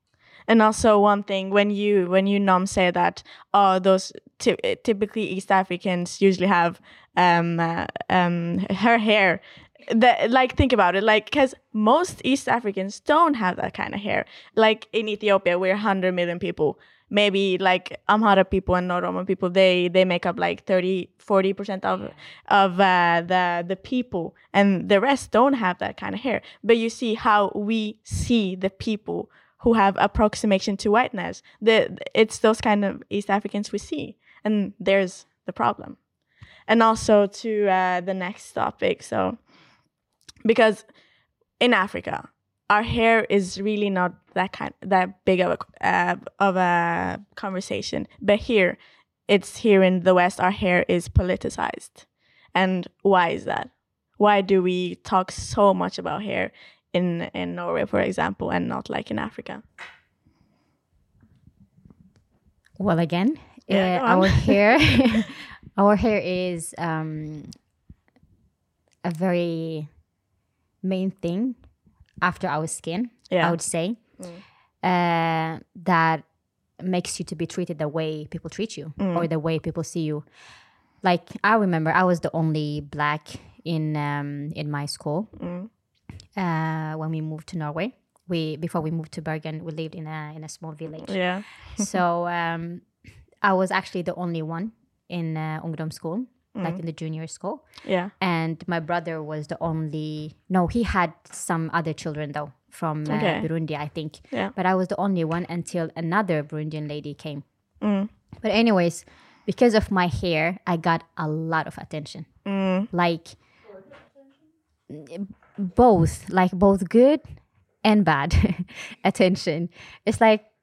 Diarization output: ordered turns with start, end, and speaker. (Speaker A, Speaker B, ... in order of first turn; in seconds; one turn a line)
Speaker A: 0.3-36.1
Speaker A: 36.6-39.5
Speaker A: 40.4-41.0
Speaker A: 41.6-59.6
Speaker B: 62.8-67.5
Speaker A: 63.7-64.6
Speaker B: 69.0-69.9
Speaker B: 70.8-71.6
Speaker B: 72.2-74.3
Speaker A: 73.3-74.4
Speaker B: 74.8-80.3
Speaker A: 79.0-79.3
Speaker B: 81.0-85.3
Speaker A: 85.4-85.7
Speaker B: 86.3-107.4
Speaker A: 91.0-91.8
Speaker A: 97.8-98.1
Speaker A: 103.1-104.5
Speaker A: 107.8-108.1
Speaker B: 108.4-113.4
Speaker A: 112.4-112.9
Speaker B: 114.9-120.5